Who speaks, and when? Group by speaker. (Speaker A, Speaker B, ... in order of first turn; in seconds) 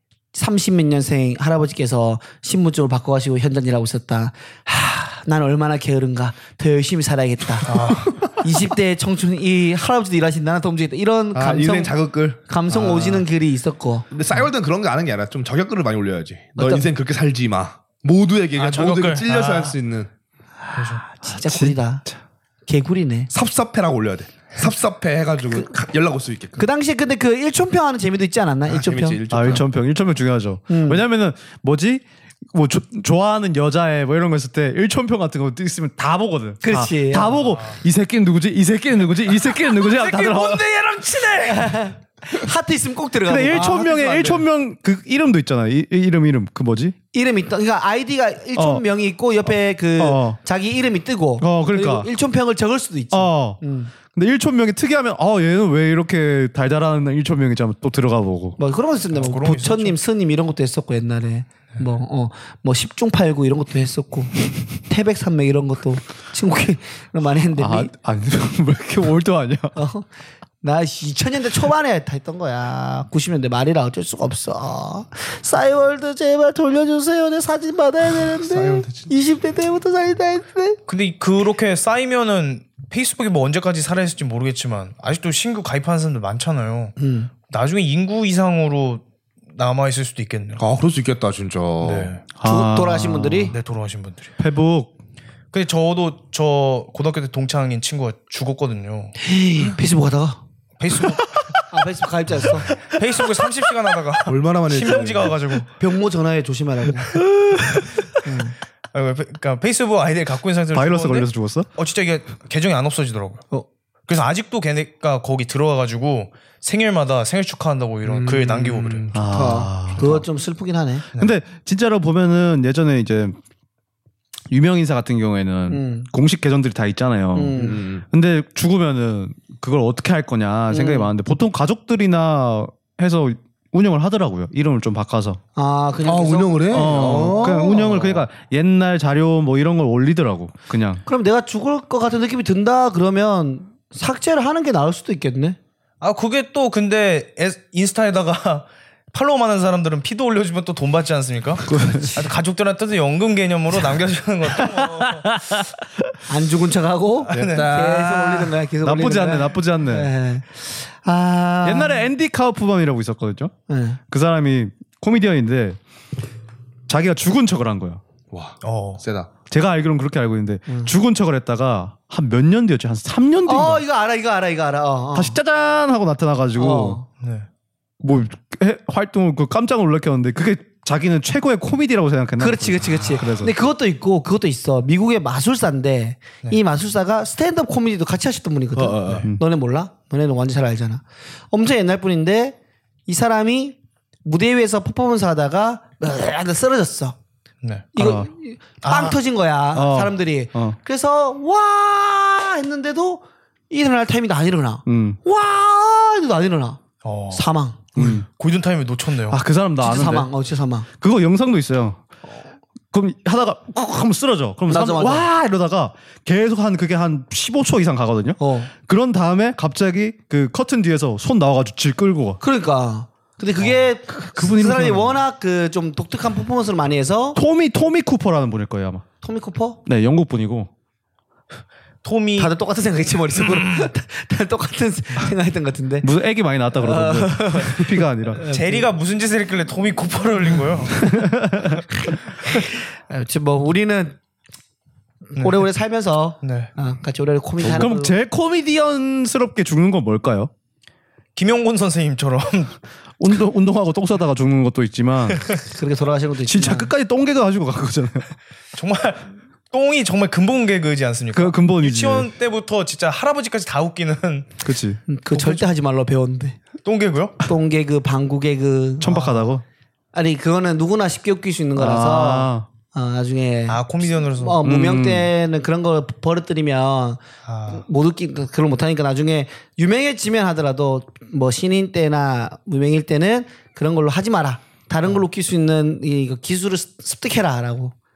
Speaker A: 0.3-14.1, 16.6-16.9, 20.8-22.0, 22.7-23.3, 25.5-25.8, 26.6-29.2, 30.7-31.0, 36.6-37.5, 41.5-43.8, 47.1-53.9, 58.6-67.9, 69.7-70.0, 70.6-80.8, 87.0-87.3, 92.4-93.5, 99.2-100.4, 101.7-102.7, 105.8-107.2, 108.2-108.5, 119.3-121.1, 125.7-126.1, 127.3-127.8, 130.7-131.1, 135.6-138.2, 141.1-145.6, 156.3-162.1, 163.7-164.0, 173.5-175.4, 176.6-177.0, 182.4-197.1, 197.9-206.8, 207.3-207.8, 209.8-210.9, 214.7-215.3, 218.4-218.7, 222.4-227.4, 229.2-229.8, 232.4-236.1, 236.7-238.9, 241.9-244.2, 245.3-248.2, 255.6-256.9, 265.1-266.6, 267.4-269.1, 270.1-287.9
Speaker B: 7.6-8.3, 18.6-19.8, 20.8-21.0, 37.5-37.8, 39.5-41.8, 59.1-60.0, 80.9-86.9, 87.5-90.6, 91.8-92.2, 93.5-94.3, 95.5-99.2, 100.8-101.6, 102.4-105.7, 108.9-113.4, 114.1-119.2, 146.0-155.3, 157.3-157.7, 168.6-169.0, 177.2-177.4, 197.6-197.9, 198.8-199.2, 207.0-209.4, 232.0-232.5, 233.3-233.9, 238.5-241.1, 245.4-245.6, 246.4-246.7, 251.3-252.8, 258.7-264.6, 265.3-265.6, 266.8-267.4, 269.0-269.4, 273.7-274.6, 277.4-277.8
Speaker C: 11.3-13.2, 14.1-20.1, 23.3-26.6, 28.7-29.6, 43.5-44.5, 78.3-79.1, 90.6-92.2, 104.2-105.4, 118.0-120.2, 127.5-128.0, 136.0-137.6, 157.3-158.5, 168.3-169.3, 188.7-189.3
Speaker D: 29.3-40.6, 43.2-46.9, 48.5-48.8, 50.0-50.4, 51.4-52.1, 53.1-58.6, 67.6-69.8, 92.3-93.5, 94.4-94.9, 110.7-111.7, 119.1-120.2, 121.2-123.4, 124.5-135.4, 136.7-141.0, 151.7-152.2, 154.6-156.2, 158.8-160.1, 161.6-163.5, 164.1-165.8, 166.9-168.0, 169.5-173.8, 175.1-177.0, 178.0-183.5, 198.0-198.3, 199.7-200.8, 204.8-205.2, 207.9-208.2, 209.3-210.3, 211.0-212.0, 212.9-222.4, 224.1-225.2, 227.3-229.0, 229.8-230.7, 236.0-238.4, 241.0-241.8, 247.6-250.5, 253.2-255.4, 256.4-258.3, 261.3-262.3, 264.6-265.0, 269.0-269.6, 271.8-272.7, 274.6-275.3